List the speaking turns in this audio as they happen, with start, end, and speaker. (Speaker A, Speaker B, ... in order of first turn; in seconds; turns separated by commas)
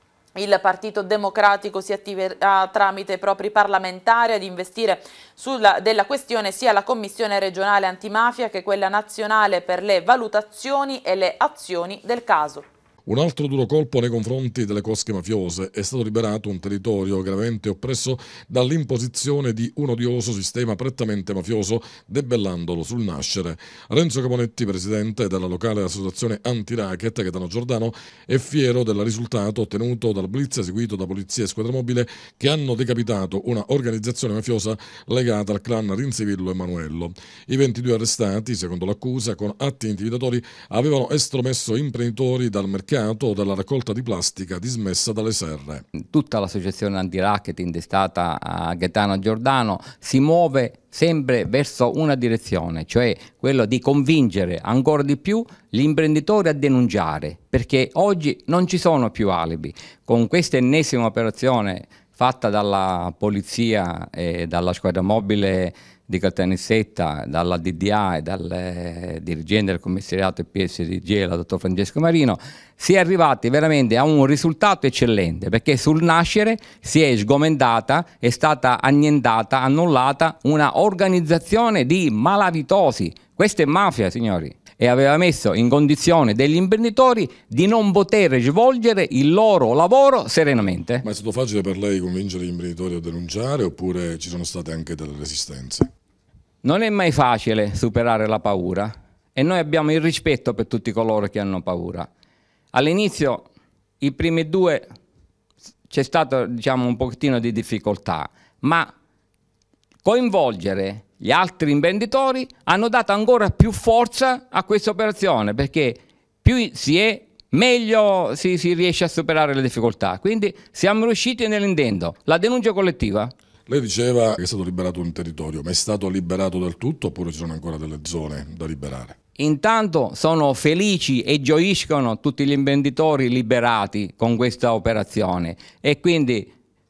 Speaker A: 0.3-12.7, Speaker B: 13.1-45.9, Speaker C: 46.0-91.0, Speaker B: 91.0-95.9, Speaker C: 96.6-102.1, Speaker C: 102.7-103.5, Speaker C: 104.0-104.9, Speaker C: 105.9-108.9, Speaker C: 110.0-123.3, Speaker B: 123.7-129.2, Speaker C: 129.3-136.5